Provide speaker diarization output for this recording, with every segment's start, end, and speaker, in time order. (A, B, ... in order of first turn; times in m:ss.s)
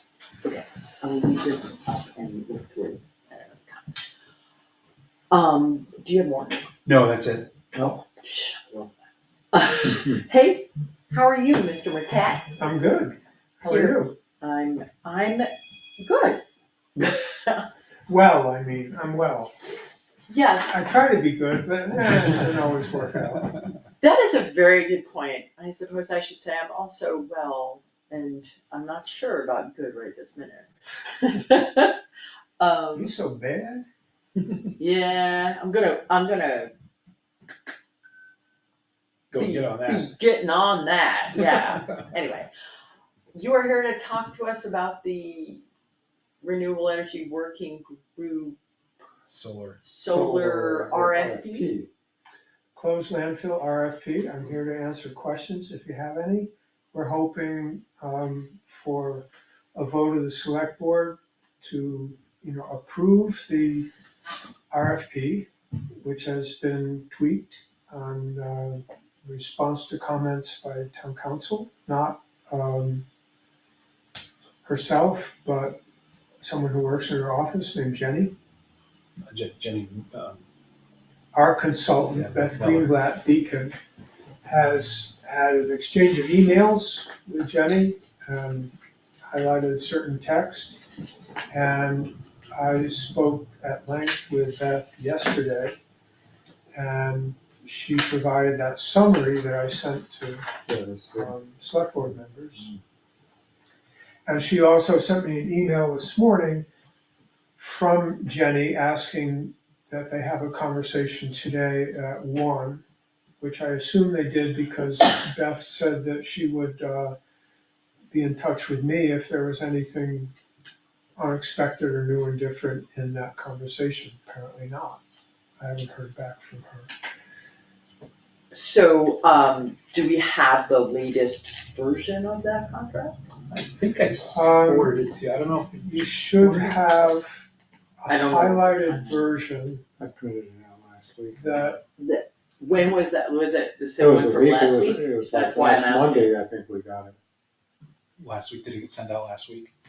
0:00.4-0:04.0 A
0:05.3-0:06.6 A
0:06.8-0:07.7 B
0:07.7-0:08.0 C
0:08.2-0:08.9 A
0:09.5-0:12.5 A
0:12.6-0:14.2 D
0:13.7-0:16.4 A
0:17.0-0:17.7 A
0:18.1-0:19.6 D
0:20.3-0:20.9 A
0:20.7-0:23.6 D
0:24.0-0:32.0 A
0:32.6-0:33.1 A
0:33.0-0:33.9 D
0:34.8-0:36.7 A
0:39.3-0:40.1 B
0:39.4-0:42.5 A
0:43.3-0:45.6 A
0:46.4-0:48.6 A
0:49.3-0:49.8 B
0:49.8-0:51.7 A
0:50.1-0:51.9 C
0:52.7-1:03.9 D
1:04.7-1:05.5 D
1:06.0-1:13.1 D
1:14.6-1:15.8 D
1:16.4-1:18.4 D
1:19.3-1:20.4 B
1:21.3-1:23.8 D
1:22.1-1:23.0 B
1:24.4-1:30.8 D
1:31.5-1:35.8 D
1:36.7-1:40.5 D
1:40.7-1:41.3 C
1:41.1-1:42.7 D
1:44.3-1:46.7 D
1:47.6-1:52.8 D
1:53.4-1:57.2 D
1:58.1-2:00.3 D
2:01.2-2:05.0 D
2:05.6-2:06.9 D
2:08.5-2:13.2 A
2:13.5-2:16.8 B
2:14.3-2:14.9 D
2:15.8-2:17.5 D
2:18.0-2:19.8 D
2:18.1-2:19.3 A
2:20.0-2:21.7 C
2:21.4-2:21.8 D
2:22.0-2:26.3 A
2:24.0-2:27.2 C
2:28.2-2:29.7 B